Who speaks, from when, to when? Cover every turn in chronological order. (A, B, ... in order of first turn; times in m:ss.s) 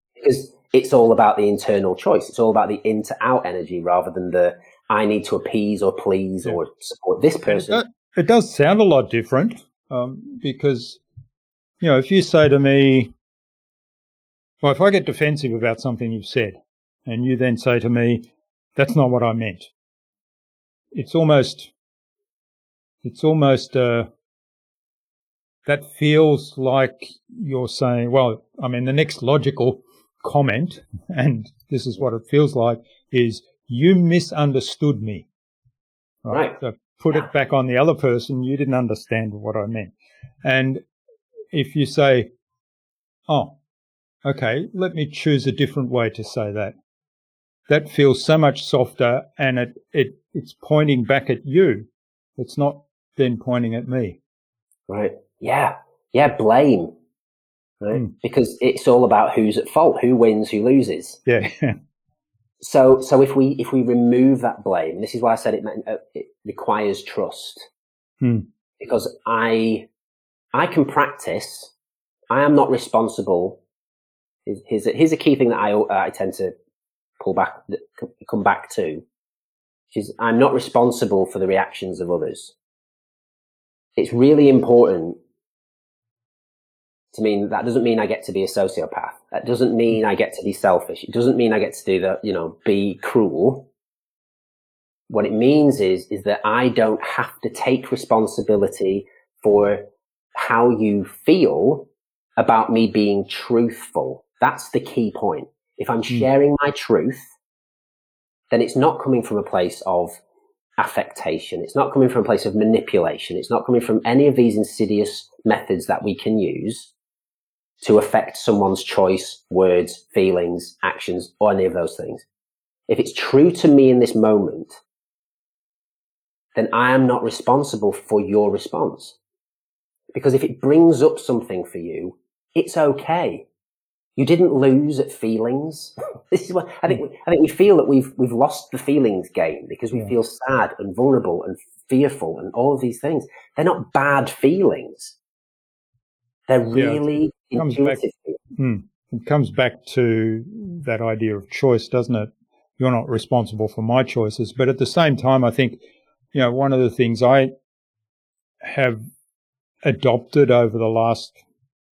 0:00.2-0:07.8 A
0:07.5-0:11.0 B
0:11.8-0:13.1 B
0:14.6-0:19.7 B
0:20.9-0:21.7 B
0:23.0-0:24.1 B
0:25.6-0:35.3 B
0:36.2-0:39.9 B
0:36.3-0:36.6 A
0:40.4-0:40.8 B
0:41.5-0:42.3 B
0:43.3-0:43.6 B
0:44.2-0:46.8 B
0:47.7-0:54.2 B
0:54.9-0:56.9 A
0:57.8-1:01.2 A
1:01.2-1:01.8 B
1:02.6-1:07.7 A
1:08.2-1:08.5 B
1:08.8-1:09.9 A
1:10.5-1:11.7 A
1:12.3-1:13.6 A
1:14.4-1:16.5 A
1:17.2-1:19.0 A
1:19.9-1:22.5 A
1:24.0-1:25.2 A
1:27.1-1:33.7 A
1:35.1-1:47.3 A
1:48.5-1:50.2 A
1:50.8-1:56.9 A
1:57.8-2:02.2 A
2:02.9-2:04.8 A
2:06.6-2:09.2 A
2:10.1-2:13.5 A
2:14.2-2:25.2 A
2:26.5-2:28.4 A
2:26.7-2:27.0 B
2:27.5-2:28.0 B
2:28.6-2:37.5 B
2:38.6-2:39.0 B
2:39.8-2:41.4 B